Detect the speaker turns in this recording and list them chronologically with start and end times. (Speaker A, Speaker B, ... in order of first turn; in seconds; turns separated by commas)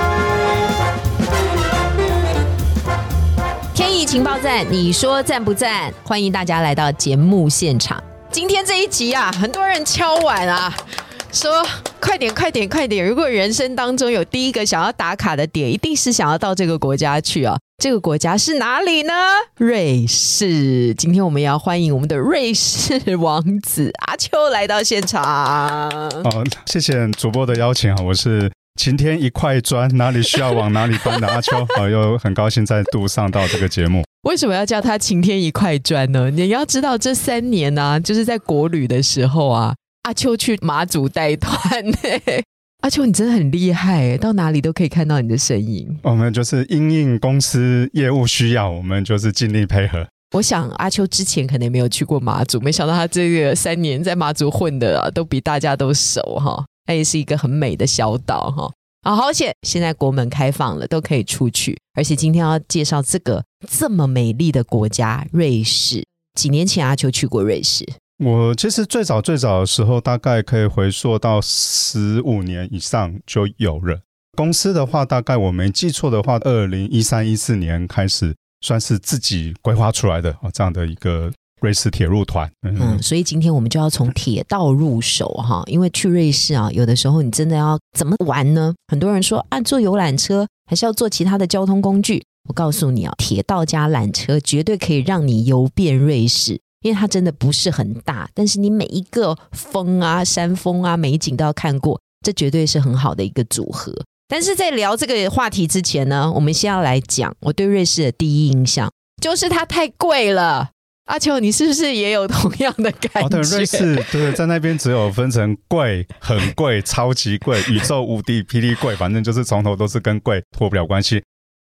Speaker A: 3.7-10.8, Speaker A: 11.3-26.3, Speaker B: 26.2-34.1, Speaker A: 31.1-31.7, Speaker A: 34.2-46.0, Speaker B: 46.0-50.1, Speaker A: 50.3-67.9, Speaker B: 68.2-83.0, Speaker A: 82.8-114.4, Speaker B: 113.2-121.2